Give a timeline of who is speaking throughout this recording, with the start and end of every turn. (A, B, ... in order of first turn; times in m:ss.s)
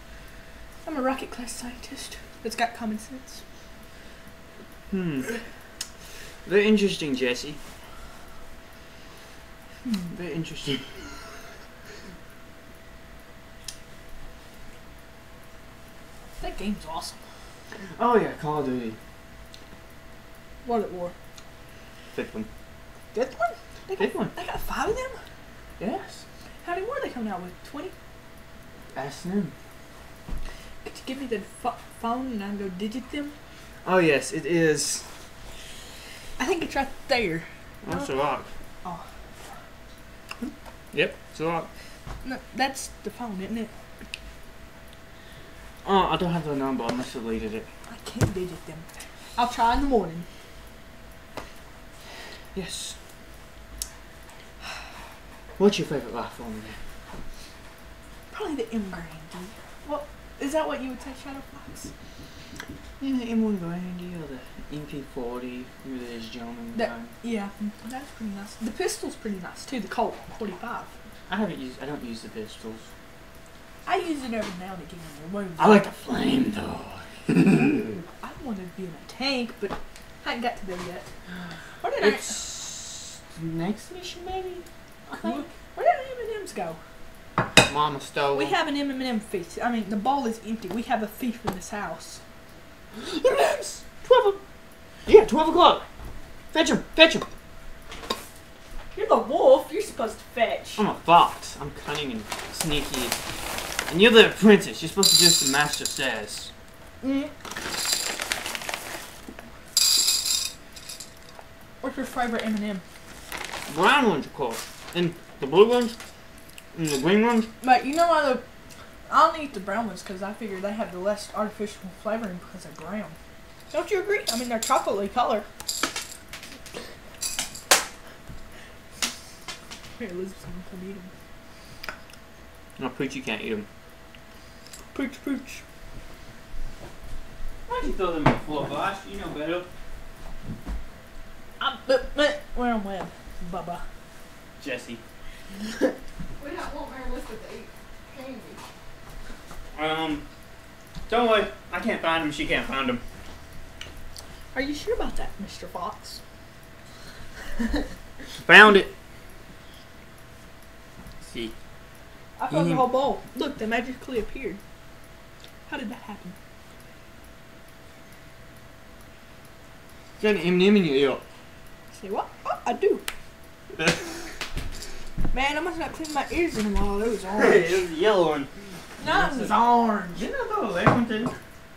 0:00.8-0:03.4 A
0:04.9-0:05.3 B
0:06.4-0:07.6 B
0:10.1-0:10.9 B
0:16.4-0:17.2 A
0:18.0-0:19.0 B
0:20.6-0:21.1 A
0:22.1-0:22.5 B
0:23.1-0:25.2 A
0:24.0-0:24.3 B
0:25.8-0:26.2 B
0:26.6-0:27.9 A
0:28.9-0:29.5 B
0:30.8-0:33.3 A
0:33.8-0:35.0 B
0:36.4-0:38.1 A
0:37.8-0:38.5 B
0:40.4-0:41.7 B
0:42.2-0:43.7 A
0:45.8-0:47.7 B
0:47.9-0:50.3 A
0:52.5-0:53.0 B
0:55.6-0:56.8 B
0:58.3-1:01.9 A
1:03.0-1:07.1 B
1:06.7-1:10.9 A
1:11.3-1:12.9 B
1:13.8-1:15.8 A
1:15.6-1:18.0 B
1:18.2-1:21.1 A
1:21.8-1:22.4 A
1:22.0-1:25.5 B
1:25.2-1:26.8 A
1:27.6-1:28.6 B
1:28.3-1:32.2 A
1:32.9-1:34.4 B
1:35.0-1:35.8 B
1:36.5-1:37.3 B
1:38.9-1:40.8 A
1:40.8-1:43.2 B
1:43.9-1:46.5 B
1:47.0-1:47.3 A
1:51.8-1:52.8 A
1:53.7-1:55.9 B
1:56.7-1:57.5 B
1:57.6-1:58.4 A
1:59.1-2:03.2 A
2:03.7-2:05.4 A
2:10.0-2:11.1 A
2:12.8-2:13.6 B
2:14.9-2:15.6 A
2:17.6-2:19.7 B
2:21.6-2:23.8 A
2:24.6-2:25.0 B
2:26.4-2:28.6 C
2:29.7-2:30.2 B
2:31.1-2:33.0 B
2:34.5-2:36.2 A
2:38.4-2:38.9 B
2:41.2-2:41.5 B
2:42.4-2:44.6 A
2:42.5-2:42.9 B
2:45.7-2:46.4 A
2:50.2-2:51.2 B
2:51.9-2:53.0 A
2:55.3-2:57.9 A
2:57.4-2:58.5 B
2:59.0-2:59.8 A
2:59.0-2:59.5 B
3:00.1-3:01.4 B